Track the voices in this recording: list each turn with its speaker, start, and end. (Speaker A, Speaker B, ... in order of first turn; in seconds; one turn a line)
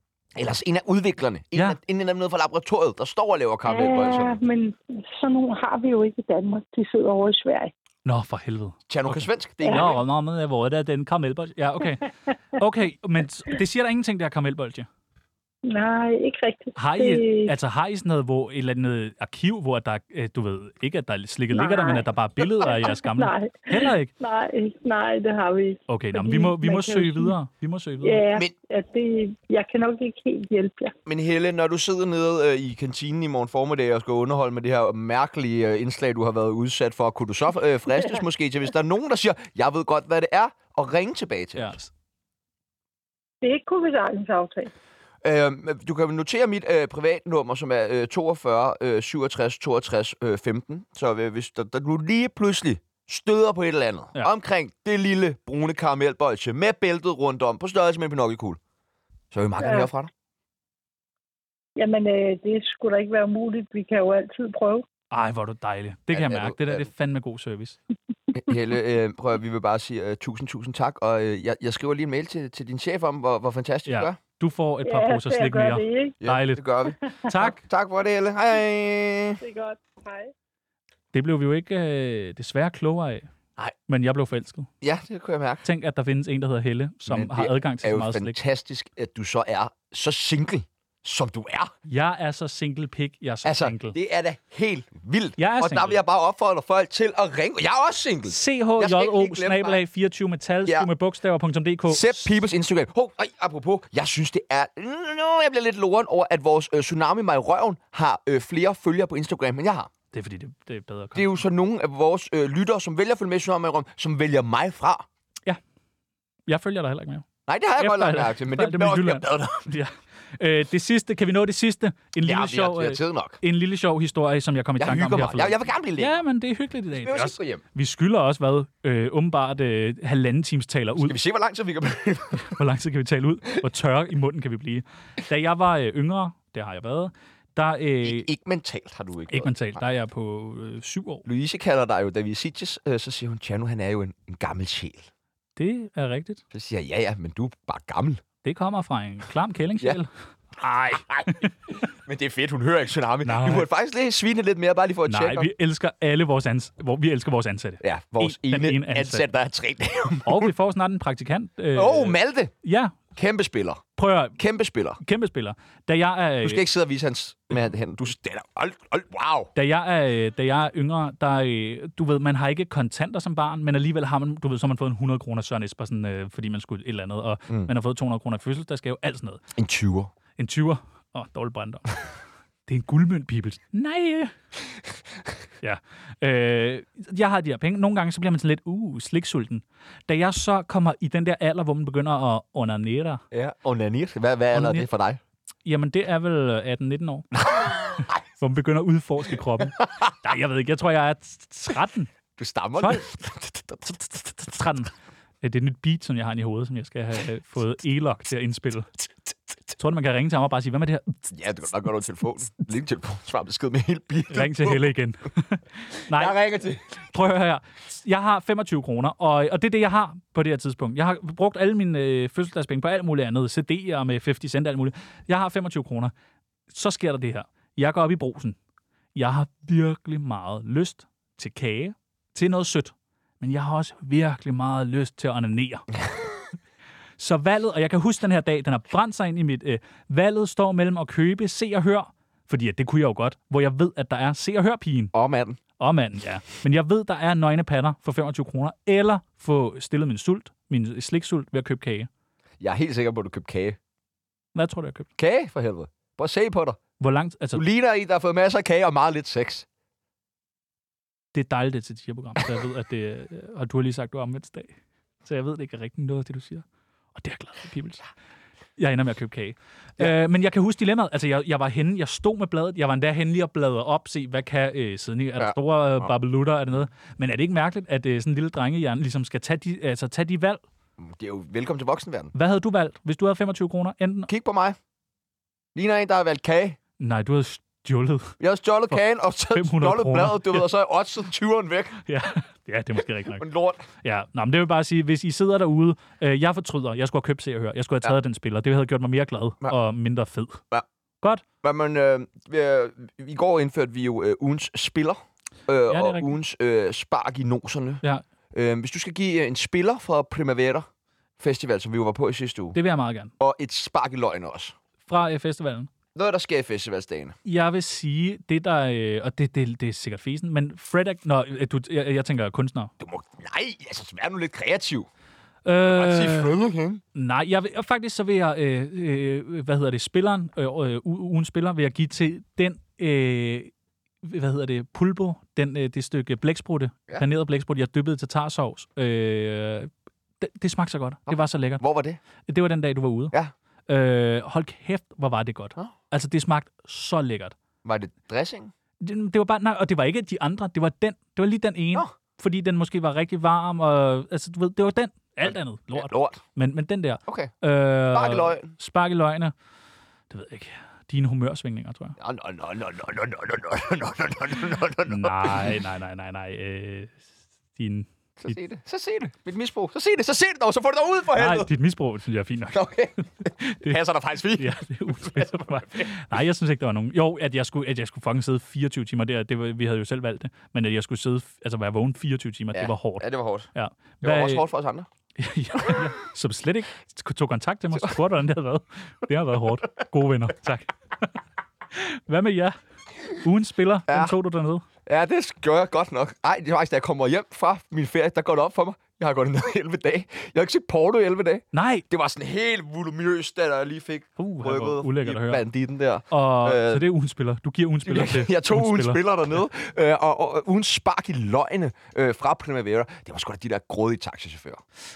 Speaker A: 0.3-4.4
Speaker B: 3.6-7.7
Speaker C: 8.0-14.9
Speaker A: 8.9-10.0
Speaker B: 15.6-17.5
Speaker C: 16.8-24.1
Speaker B: 21.5-27.3
Speaker C: 25.9-28.2
Speaker B: 28.0-30.9
Speaker A: 31.1-41.7
Speaker C: 41.5-41.9
Speaker B: 43.4-44.7
Speaker A: 45.2-58.6
Speaker A: 59.3-60.1
Speaker B: 59.6-59.9
Speaker B: 61.8-64.8
Speaker C: 65.1-67.8
Speaker A: 66.1-66.9
Speaker A: 68.3-74.2
Speaker C: 73.9-77.6
Speaker B: 74.8-76.2
Speaker A: 76.2-79.4
Speaker B: 79.4-80.3
Speaker C: 81.1-83.3
Speaker C: 83.9-84.7
Speaker A: 84.8-85.6
Speaker C: 85.6-88.3
Speaker A: 87.1-91.7
Speaker C: 91.9-93.9
Speaker A: 93.4-99.8
Speaker C: 95.4-96.0
Speaker C: 98.3-102.3
Speaker A: 101.9-109.9
Speaker C: 110.1-111.3
Speaker A: 111.1-115.0
Speaker C: 116.5-131.2
Speaker A: 117.5-119.7
Speaker A: 122.2-123.4
Speaker A: 124.8-126.2
Speaker A: 127.0-127.6
Speaker A: 131.0-132.6
Speaker C: 132.3-138.3
Speaker A: 138.0-139.8
Speaker C: 139.3-141.2
Speaker A: 141.2-145.1
Speaker C: 145.6-146.4
Speaker A: 146.5-148.2
Speaker C: 148.4-151.8
Speaker A: 150.9-155.5
Speaker C: 153.2-153.7
Speaker C: 155.1-159.3
Speaker A: 157.8-160.5
Speaker C: 160.2-163.1
Speaker A: 161.7-162.5
Speaker A: 163.1-163.8
Speaker C: 164.0-164.4
Speaker A: 164.3-165.0
Speaker C: 165.0-166.6
Speaker A: 166.4-169.5
Speaker C: 169.5-179.4
Speaker A: 179.6-180.1
Speaker C: 180.4-182.0
Speaker C: 182.7-184.3
Speaker C: 185.6-193.2
Speaker A: 193.3-195.2
Speaker C: 194.5-194.9
Speaker C: 195.6-202.1
Speaker A: 202.4-204.3
Speaker C: 202.8-203.1
Speaker C: 204.3-204.9
Speaker C: 205.4-208.9
Speaker C: 209.7-211.3
Speaker A: 211.3-214.9
Speaker C: 214.3-216.3
Speaker A: 216.1-217.0
Speaker C: 217.0-226.1
Speaker C: 226.7-228.6
Speaker C: 229.1-235.9
Speaker C: 237.2-245.1
Speaker A: 245.1-245.6
Speaker C: 245.8-252.1
Speaker A: 252.6-253.8
Speaker C: 254.5-255.1
Speaker A: 255.2-256.8
Speaker C: 257.0-257.6
Speaker A: 257.5-259.6
Speaker C: 261.3-268.0
Speaker C: 268.8-280.6
Speaker A: 275.4-276.1
Speaker A: 281.0-282.3
Speaker C: 282.3-284.3
Speaker A: 284.3-284.8
Speaker A: 285.7-286.8
Speaker C: 287.0-288.3
Speaker A: 288.4-292.0
Speaker C: 289.5-290.6
Speaker C: 292.1-293.4
Speaker A: 293.3-293.9
Speaker C: 294.0-300.6
Speaker A: 301.6-310.9
Speaker C: 305.9-306.3
Speaker A: 311.4-312.8
Speaker C: 312.7-313.3
Speaker A: 313.4-314.7
Speaker C: 315.1-315.9
Speaker A: 316.1-317.3
Speaker C: 317.4-322.9
Speaker A: 323.0-325.1
Speaker C: 325.6-326.5
Speaker A: 325.9-327.0
Speaker C: 327.1-341.8
Speaker A: 341.3-342.2
Speaker C: 342.5-343.4
Speaker C: 343.9-347.5
Speaker A: 347.8-348.7
Speaker C: 349.0-359.5
Speaker A: 355.4-356.4
Speaker A: 357.2-358.7
Speaker C: 360.3-362.1
Speaker A: 362.2-365.8
Speaker C: 365.0-368.5
Speaker A: 368.4-371.7
Speaker C: 371.3-372.9
Speaker A: 372.7-376.3
Speaker C: 373.4-374.0
Speaker C: 374.6-384.6
Speaker A: 382.7-383.7
Speaker A: 384.2-385.1
Speaker C: 385.4-391.4
Speaker A: 385.8-386.0
Speaker C: 391.9-392.7
Speaker C: 393.3-394.9
Speaker A: 394.1-394.4
Speaker A: 395.1-407.0
Speaker C: 401.7-402.0
Speaker C: 404.4-405.6
Speaker C: 406.3-409.2
Speaker A: 408.0-414.8